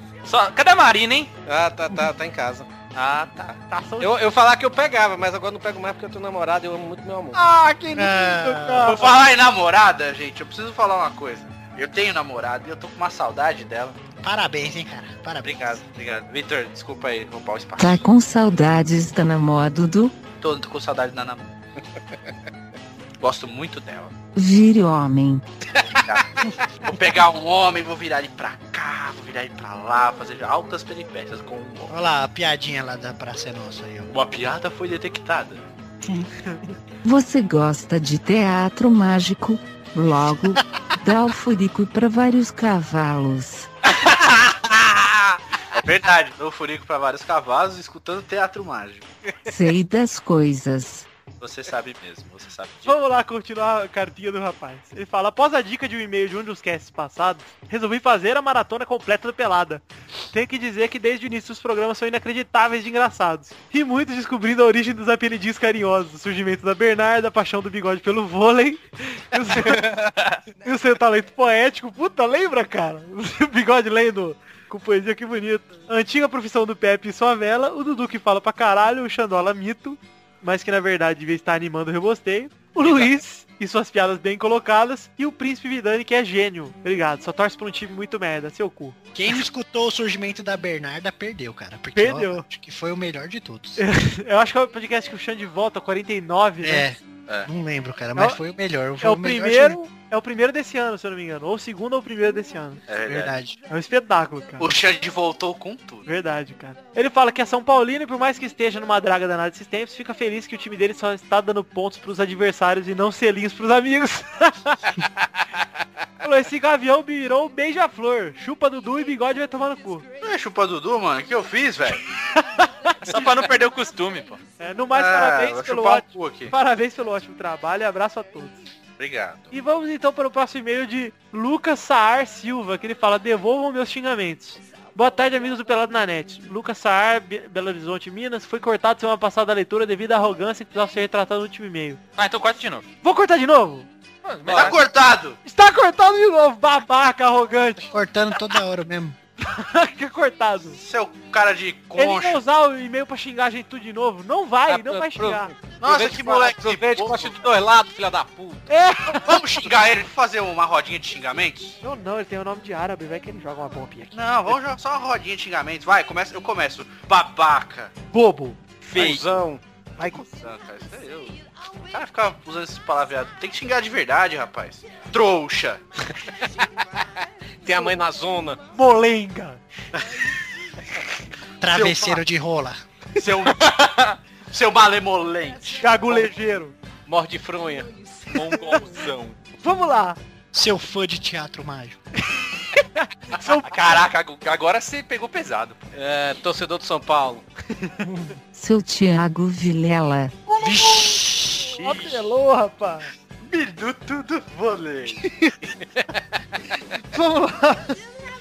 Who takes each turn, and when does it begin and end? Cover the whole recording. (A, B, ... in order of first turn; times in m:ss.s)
0:00.2-0:01.3 A
0:01.5-0:02.8 B
0:02.9-0:03.6 A
0:03.7-0:04.2 C
0:04.0-0:07.4 B
0:07.3-0:09.1 C
0:08.0-0:09.1 D
0:08.9-0:14.0 E
0:14.2-0:15.8 D
0:15.4-0:18.0 E
0:17.8-0:20.2 F
0:20.4-0:21.5 E
0:23.2-0:24.1 E
0:24.4-0:25.4 F
0:25.8-0:26.3 E
0:26.8-0:31.9 E
0:31.9-0:34.1 D
0:34.1-0:35.6 E
0:37.0-0:43.7 F
0:44.0-0:44.6 E
0:45.7-0:49.1 E
0:49.5-0:51.1 F
0:51.4-0:53.0 E
0:52.9-1:09.9 C
1:09.5-1:10.4 A
1:10.6-1:29.0 C
1:29.1-1:33.8 D
1:32.0-1:32.4 C
1:33.8-1:36.9 C
1:36.6-1:39.8 D
1:39.0-1:42.8 C
1:42.9-1:43.4 E
1:43.0-1:43.6 D
1:43.7-1:44.7 C
1:44.6-1:46.1 E
1:46.1-1:54.8 C
1:56.2-2:00.1 C
2:00.2-2:02.0 E
2:02.3-2:03.0 C
2:03.0-2:04.4 A
2:04.6-2:08.6 C
2:04.9-2:06.5 E
2:09.0-2:09.5 E
2:09.5-2:22.0 C
2:22.2-2:22.8 A
2:23.0-2:23.9 C
2:24.2-2:24.8 A
2:24.5-2:25.4 E
2:25.4-2:27.9 C
2:27.9-2:29.2 D
2:29.4-2:30.8 C
2:30.8-2:32.4 E
2:32.0-2:35.5 C
2:34.7-2:38.7 B
2:35.8-2:37.5 E
2:38.7-2:39.6 C
2:39.1-2:41.8 E
2:41.8-2:44.5 C
2:44.1-2:47.9 E
2:48.1-2:48.6 C
2:48.9-2:49.2 A
2:48.9-2:49.6 B
2:50.0-2:50.2 C
2:50.0-2:51.4 E
2:51.9-2:55.8 E
2:57.6-2:58.6 B
2:58.7-2:59.6 C
3:01.6-3:02.8 D
3:01.7-3:02.2 E
3:03.2-3:04.0 E
3:03.8-3:04.2 A
3:04.5-3:06.2 E
3:05.8-3:06.8 C
3:07.1-3:07.9 B
3:08.3-3:09.4 A
3:09.6-3:10.2 C
3:10.5-3:12.0 D
3:12.4-3:13.7 C
3:13.4-3:15.8 A
3:15.9-3:17.4 B
3:18.0-3:18.4 D
3:18.5-3:20.3 F
3:20.6-3:21.7 D
3:20.8-3:21.2 E
3:21.7-3:23.1 C
3:23.4-3:25.3 E
3:25.3-3:25.5 C
3:27.0-3:28.0 C